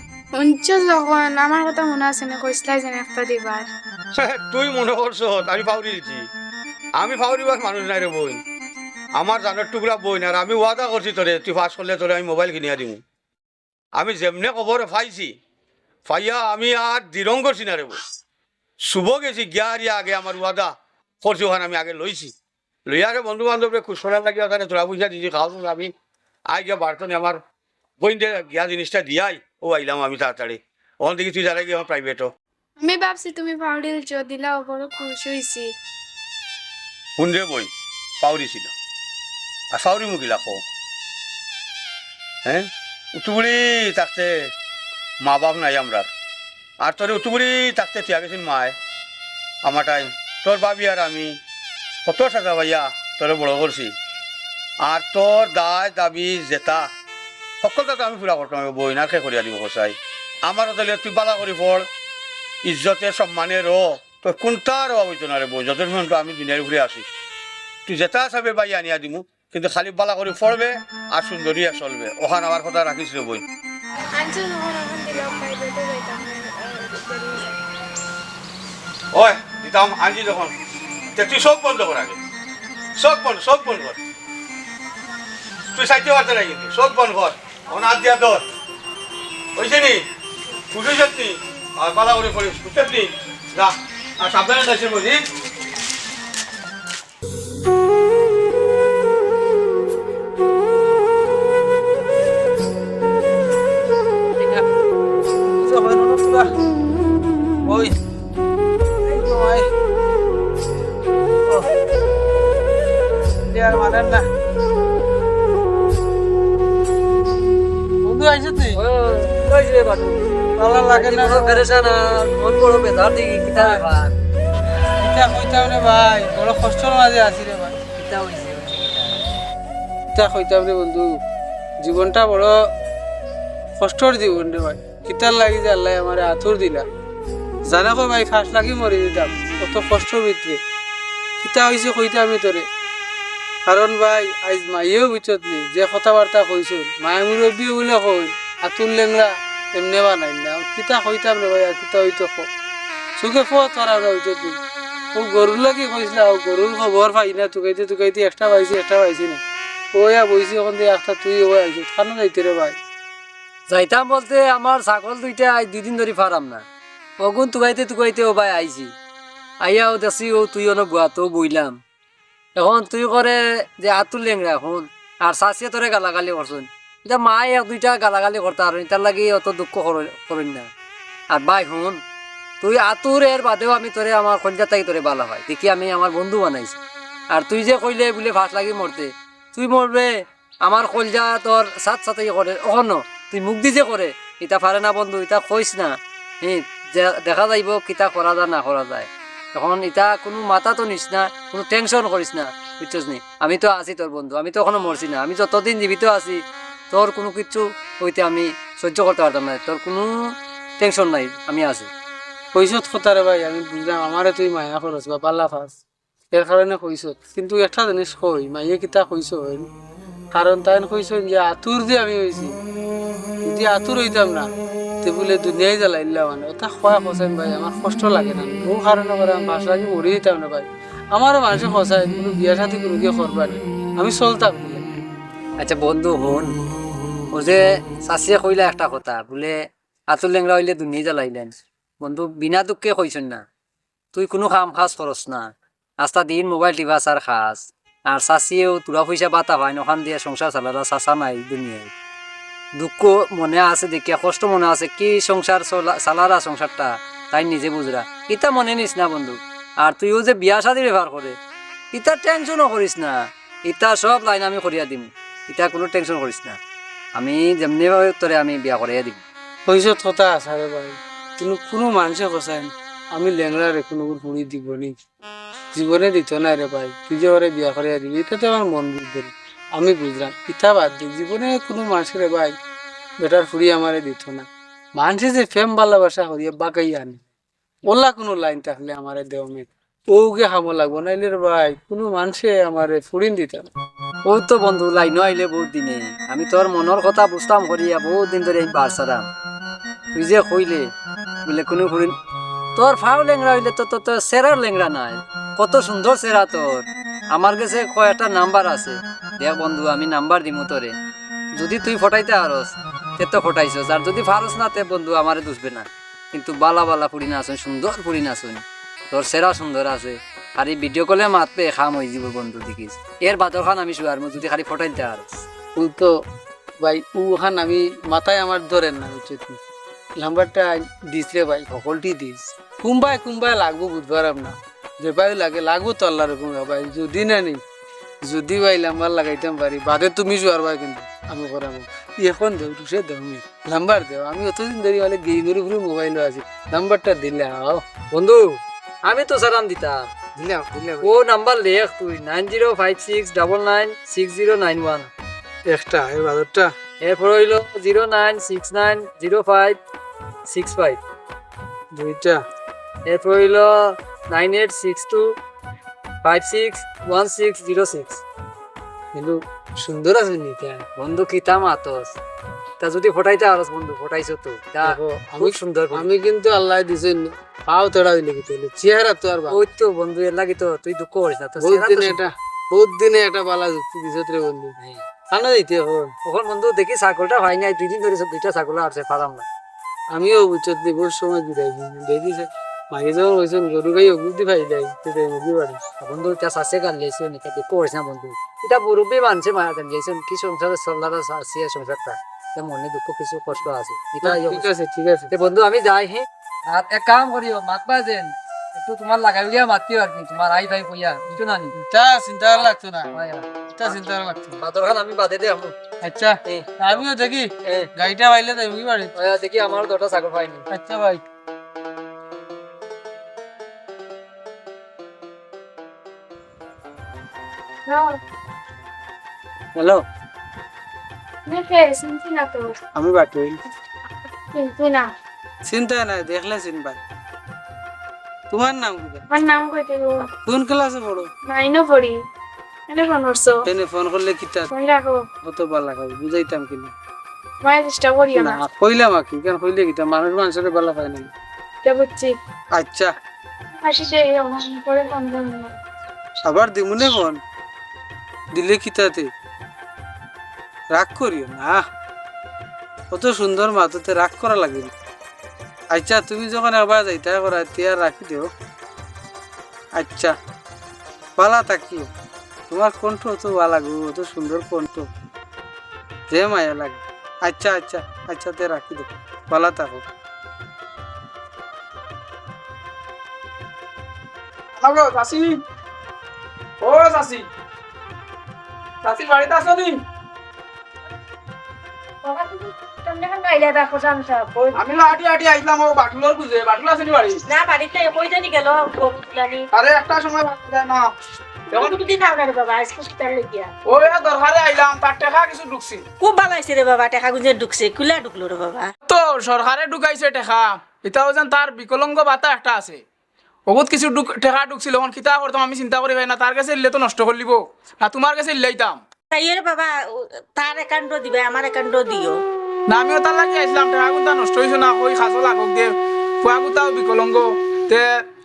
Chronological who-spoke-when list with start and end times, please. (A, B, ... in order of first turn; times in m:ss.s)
0:00.4-0:03.7 A
0:04.2-0:06.3 B
0:07.0-0:08.4 B
0:09.2-0:13.0 B
0:14.0-0:15.4 B
0:16.1-0:18.0 B
0:18.9-0:22.3 B
0:22.9-0:25.9 B
0:26.5-0:27.4 B
0:28.0-0:32.3 B
0:32.8-0:35.7 A
0:37.2-0:38.7 B
0:39.7-0:40.6 B
0:42.4-0:44.5 B
0:45.2-0:46.1 B
0:46.8-0:48.8 B
0:49.6-0:51.4 B
0:52.1-0:54.0 B
0:54.8-0:56.9 B
0:57.6-1:01.9 B
1:02.6-1:07.1 B
1:07.9-1:13.4 B
1:14.2-1:17.6 A
1:19.1-1:20.5 B
1:21.2-1:22.2 B
1:23.0-1:24.0 B
1:25.7-1:28.4 B
1:29.6-1:30.0 B
1:30.7-1:35.2 B
1:44.4-1:44.7 C
1:45.5-1:46.5 C
1:47.7-1:47.9 C
1:49.0-1:49.7 C
1:53.5-1:54.3 C
1:58.0-1:58.8 C
1:58.8-2:00.2 D
2:00.6-2:01.7 C
2:00.9-2:04.2 D
2:03.6-2:03.8 C
2:05.0-2:07.8 C
2:08.0-2:09.2 D
2:10.1-2:11.2 C
2:11.8-2:12.6 C
2:13.8-2:16.9 C
2:17.7-2:20.6 C
2:21.4-2:22.6 C
2:23.7-2:32.5 C
2:33.2-2:34.6 C
2:35.1-2:39.4 C
2:39.9-2:42.8 C
2:43.7-2:46.6 D
2:47.2-2:48.9 D
2:49.6-2:51.8 D
2:52.6-3:00.7 D
3:01.3-3:02.0 D
3:02.6-3:06.8 D
3:07.3-3:10.1 D
3:10.6-3:26.4 D
3:26.9-3:31.9 D
3:32.5-3:35.8 C
3:36.3-3:39.7 C
3:40.3-3:42.6 C
3:43.4-3:44.5 C
3:45.0-3:54.8 C
3:55.6-3:56.5 D
3:57.3-3:59.6 D
4:00.1-4:03.4 D
4:04.1-4:05.5 D
4:06.0-4:11.9 D
4:12.8-4:21.4 D
4:21.9-4:26.6 D
4:27.2-4:29.2 D
4:29.7-4:35.0 C
4:35.7-4:42.6 C
4:43.2-4:47.2 C
4:47.9-4:53.7 C
4:54.3-4:59.3 D
5:00.1-5:00.9 D
5:01.5-5:02.1 D
5:02.8-5:10.9 D
5:11.6-5:25.3 D
5:25.8-5:26.1 C
5:26.8-5:29.6 C
5:30.2-5:37.6 C
5:38.2-5:47.9 C
5:48.1-5:50.1 D
5:50.4-5:51.1 C
5:51.0-5:55.1 D
5:55.7-5:56.7 C
5:57.0-5:59.8 D
6:00.5-6:01.0 D
6:02.0-6:02.4 C
6:03.1-6:05.4 D
6:06.2-6:08.2 D
6:09.1-6:10.9 C
6:11.0-6:12.1 D
6:12.8-6:16.1 D
6:14.8-6:19.6 C
6:19.5-6:22.2 D
6:21.6-6:24.8 C
6:25.3-6:26.1 C
6:26.3-6:29.5 D
6:30.1-6:35.8 C
6:36.0-6:44.7 D
6:44.2-6:45.3 C
6:45.3-6:51.7 D
6:51.7-6:53.1 C
6:53.1-6:54.0 D
6:53.8-6:54.6 C
6:54.6-6:55.8 D
6:56.0-6:59.1 C
6:56.4-6:57.0 D
6:57.6-6:57.9 D
6:59.2-7:00.6 D
7:00.7-7:01.2 C
7:07.9-7:08.2 A
7:09.8-7:10.0 D
7:11.5-7:12.7 A
7:13.0-7:13.6 C
7:14.5-7:15.1 A
7:15.7-7:17.0 C
7:18.5-7:19.2 C
7:19.3-7:20.3 A
7:20.5-7:21.3 C
7:21.5-7:22.2 A
7:22.9-7:23.7 A
7:23.7-7:24.7 C
7:24.7-7:25.3 A
7:25.4-7:26.9 C
7:27.6-7:28.6 A
7:28.4-7:31.3 C
7:31.8-7:32.4 A
7:32.8-7:33.1 C
7:33.8-7:35.8 A
7:36.4-7:37.4 C
7:38.6-7:39.3 C
7:40.9-7:41.9 C
7:43.1-7:44.9 C
7:45.9-7:48.5 C
7:50.0-7:50.4 C
7:51.4-7:52.1 C
7:52.7-7:55.1 C
7:56.3-8:00.0 C
8:04.8-8:05.6 E
8:06.8-8:07.5 E
8:09.0-8:10.0 E
8:12.2-8:14.8 F
8:14.7-8:17.4 E
8:17.5-8:19.7 F
8:19.7-8:21.1 E
8:21.7-8:23.7 F
8:21.7-8:22.0 E
8:23.9-8:26.0 E
8:26.2-8:28.9 F
8:29.1-8:33.0 E
8:33.7-8:39.0 E
8:39.3-8:42.4 F
8:42.9-8:48.1 E